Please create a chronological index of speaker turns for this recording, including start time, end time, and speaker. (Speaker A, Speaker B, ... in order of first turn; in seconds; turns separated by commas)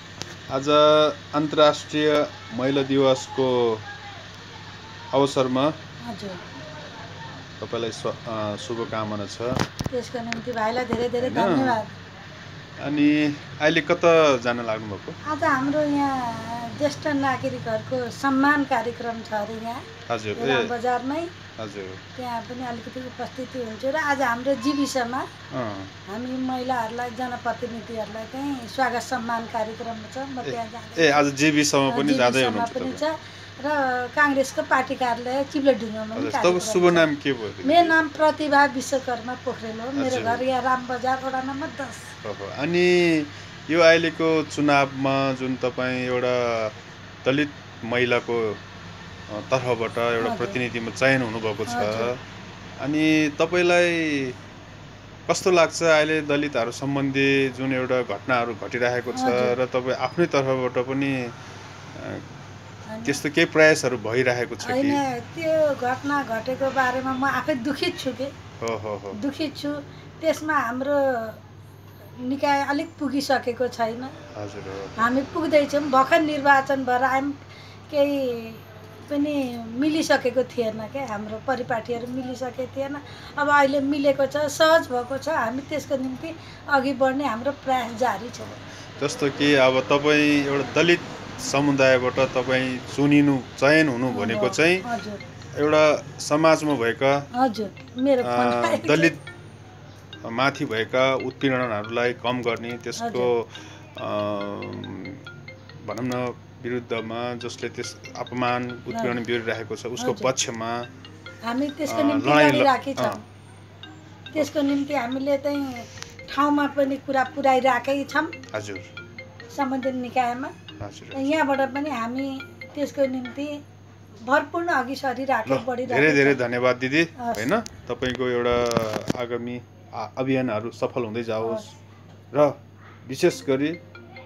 Speaker A: 0.5-3.8, Speaker A: 5.1-5.7, Speaker B: 6.0-6.4, Speaker A: 7.6-9.6, Speaker B: 9.9-11.9, Speaker A: 11.2-11.8, Speaker A: 12.8-15.2, Speaker B: 15.3-21.3, Speaker A: 20.1-20.7, Speaker A: 21.6-22.0, Speaker B: 22.2-25.3, Speaker A: 25.5-25.9, Speaker B: 26.1-31.2, Speaker A: 30.4-33.0, Speaker B: 31.9-37.0, Speaker A: 36.1-38.0, Speaker B: 37.6-42.1, Speaker A: 40.0-40.4, Speaker A: 42.2-48.6, Speaker A: 49.3-52.2, Speaker B: 50.2-50.6, Speaker B: 51.7-52.1, Speaker A: 52.8-54.4, Speaker A: 55.3-61.3, Speaker B: 59.1-59.5, Speaker A: 61.9-62.2, Speaker B: 62.9-63.2, Speaker A: 63.0-65.0, Speaker B: 64.6-68.3, Speaker A: 68.6-69.2, Speaker B: 69.1-71.4, Speaker B: 72.2-74.1, Speaker A: 74.3-75.0, Speaker B: 75.0-88.5, Speaker A: 88.5-94.9, Speaker B: 94.1-95.2, Speaker A: 95.5-97.2, Speaker B: 97.3-99.1, Speaker A: 98.2-99.2, Speaker A: 100.2-105.2, Speaker B: 103.0-103.3, Speaker A: 105.8-110.8, Speaker B: 108.9-109.2, Speaker B: 110.0-110.3, Speaker B: 111.5-113.2, Speaker A: 111.9-113.2, Speaker B: 114.3-118.3, Speaker A: 118.5-118.9, Speaker B: 119.5-120.5, Speaker A: 120.8-121.3, Speaker B: 121.1-123.6, Speaker B: 124.2-126.4, Speaker A: 125.5-131.7, Speaker B: 127.2-127.5, Speaker B: 131.4-131.7, Speaker A: 132.3-133.8